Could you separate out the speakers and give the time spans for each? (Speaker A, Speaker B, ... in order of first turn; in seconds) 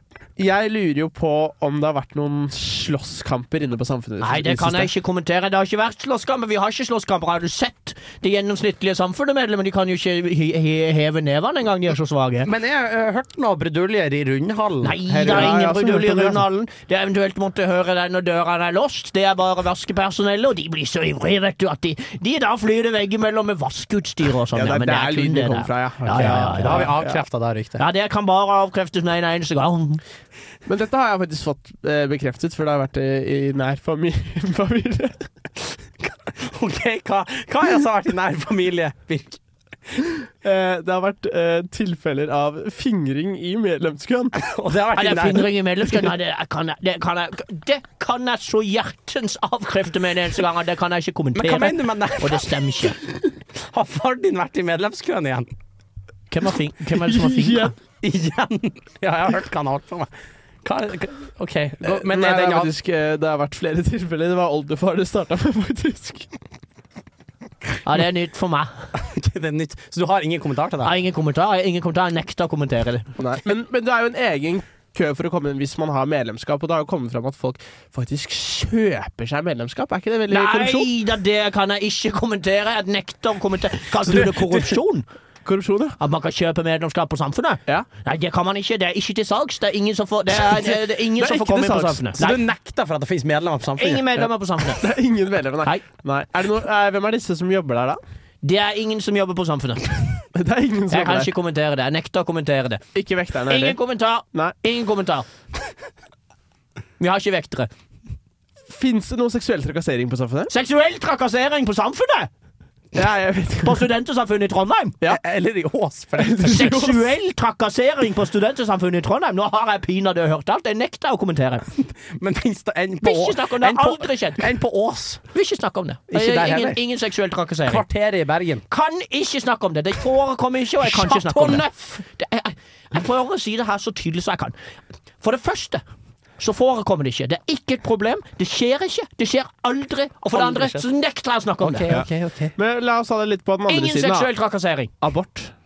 Speaker A: 0.4-4.9, 15.1-16.4, 24.5-27.2, 30.7-35.3, 40.4-44.4, 56.9-57.7, 61.8-66.3, 73.2-80.9, 84.2-84.7, 85.5-86.0, 90.4-92.2, 94.8-98.0, 100.3-101.3, 103.0-103.8, 108.7-110.5, 112.9-113.9, 116.2-117.1, 141.9-144.3, 145.0-145.5
Speaker B: 4.2-12.5, 14.8-26.9, 27.8-30.0, 45.0-53.0, 56.3-57.7, 67.8-68.7, 70.8-73.1, 80.3-85.1, 86.0-92.4, 93.8-94.8, 98.4-100.2, 100.9-102.8, 103.5-105.3, 107.0-107.7, 110.5-112.3, 113.6-115.0, 116.4-121.7, 123.0-124.4, 125.3-127.8, 128.7-134.6, 135.2-135.8, 136.4-142.0, 143.7-144.9
Speaker C: 12.4-15.5, 26.1-27.9, 36.2-39.4, 44.4-45.5, 51.4-55.5, 58.0-60.1, 60.6-62.7, 69.0-71.0, 92.2-94.1, 115.1-116.7, 121.7-125.2, 126.1-126.8, 127.7-128.6, 130.8-131.7, 140.3-140.8, 141.6-142.5